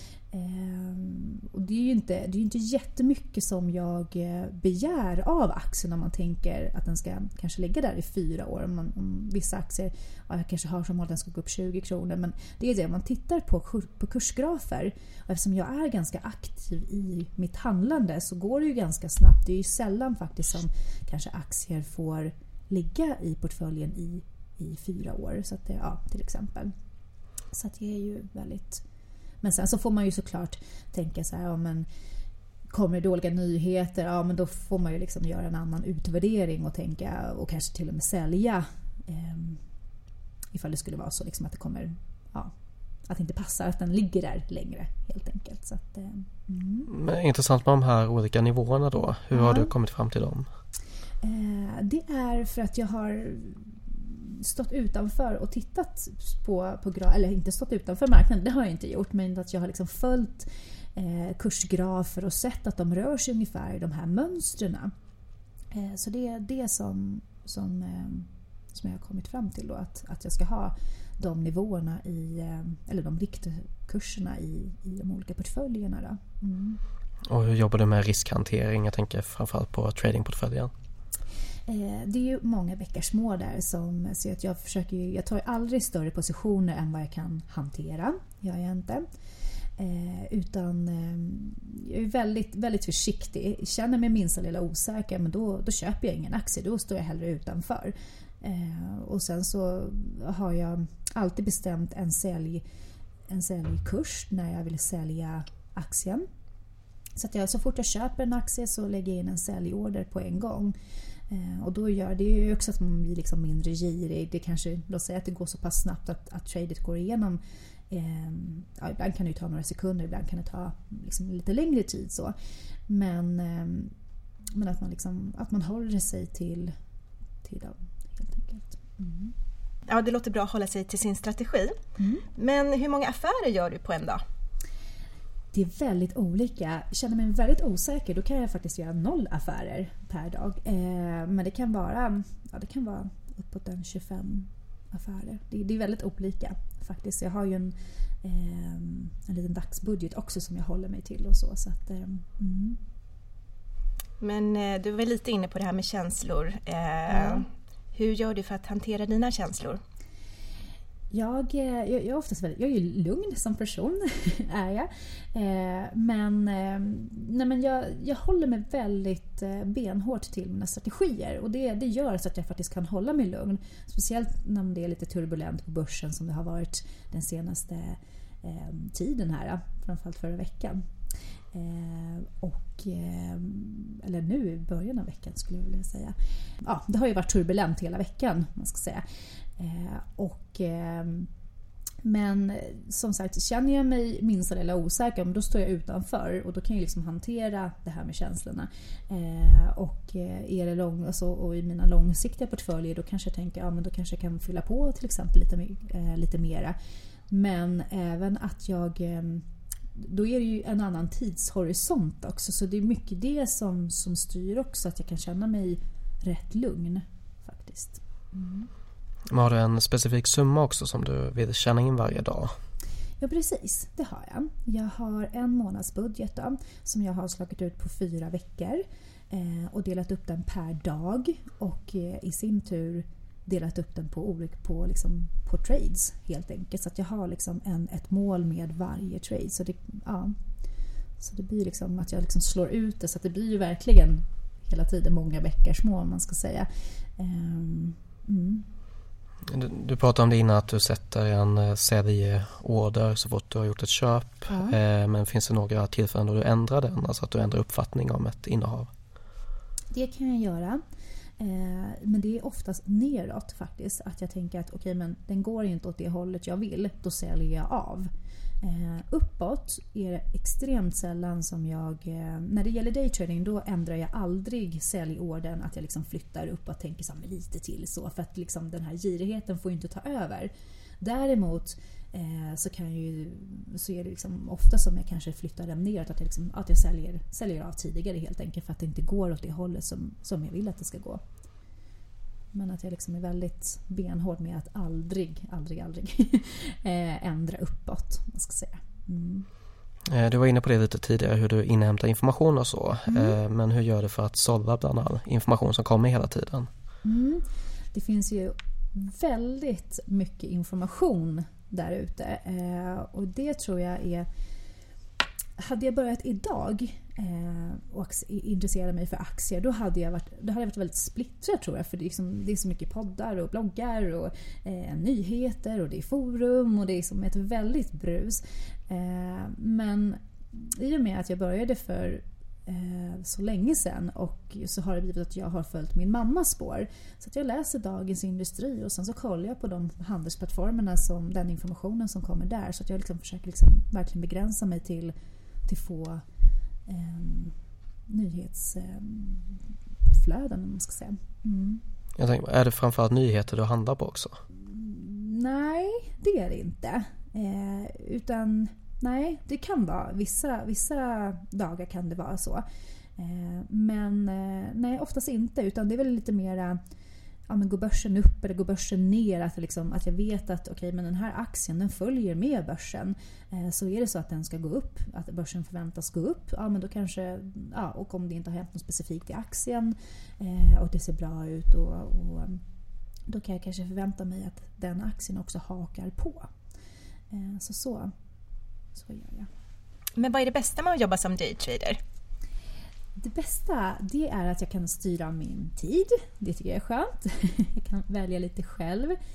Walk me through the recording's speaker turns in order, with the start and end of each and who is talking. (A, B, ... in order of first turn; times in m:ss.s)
0:00.3-0:26.7 A
0:27.5-0:28.8 A
0:29.4-0:31.9 A
0:32.7-0:39.6 A
0:40.5-0:42.5 A
0:43.1-0:46.9 A
0:46.9-0:50.5 B
0:49.3-0:49.7 A
0:51.2-1:04.9 A
1:05.7-1:16.8 A
1:17.3-1:20.7 B
1:21.7-1:29.0 A
1:29.8-1:42.6 A
1:43.3-1:46.2 A
1:47.2-1:50.7 A
1:51.3-1:57.4 A
1:57.9-2:02.3 A
2:02.9-2:03.9 A
2:04.5-2:06.7 A
2:07.4-2:09.3 A
2:09.9-2:11.8 C
2:12.0-2:12.2 A
2:12.3-2:14.2 C
2:15.5-2:32.8 A
2:34.2-2:39.8 C
2:37.1-2:37.4 A
2:41.1-3:00.8 A
3:01.5-3:09.0 A
3:09.6-3:11.3 A
3:12.0-3:26.7 A
3:27.3-3:38.7 A
3:39.3-3:42.5 B
3:43.2-4:00.3 A
4:01.2-4:08.6 A
4:09.5-4:18.9 B
4:14.5-4:14.8 A
4:19.9-4:20.8 A
4:21.4-4:28.1 A
4:28.6-4:40.5 A
4:41.0-4:51.2 A
4:52.5-4:59.4 A
5:00.1-5:06.7 B
5:03.1-5:03.4 A
5:07.0-5:14.3 A
5:15.6-5:45.1 A
5:45.7-5:46.2 A
5:46.9-5:47.5 A
5:48.1-5:51.8 A
5:52.2-5:54.4 B
5:54.6-6:02.6 A
6:03.2-6:06.8 A
6:07.5-6:22.6 A
6:23.3-6:26.5 A
6:27.3-6:28.1 A
6:29.0-6:29.5 A
6:30.2-6:32.0 C
6:33.2-6:39.1 A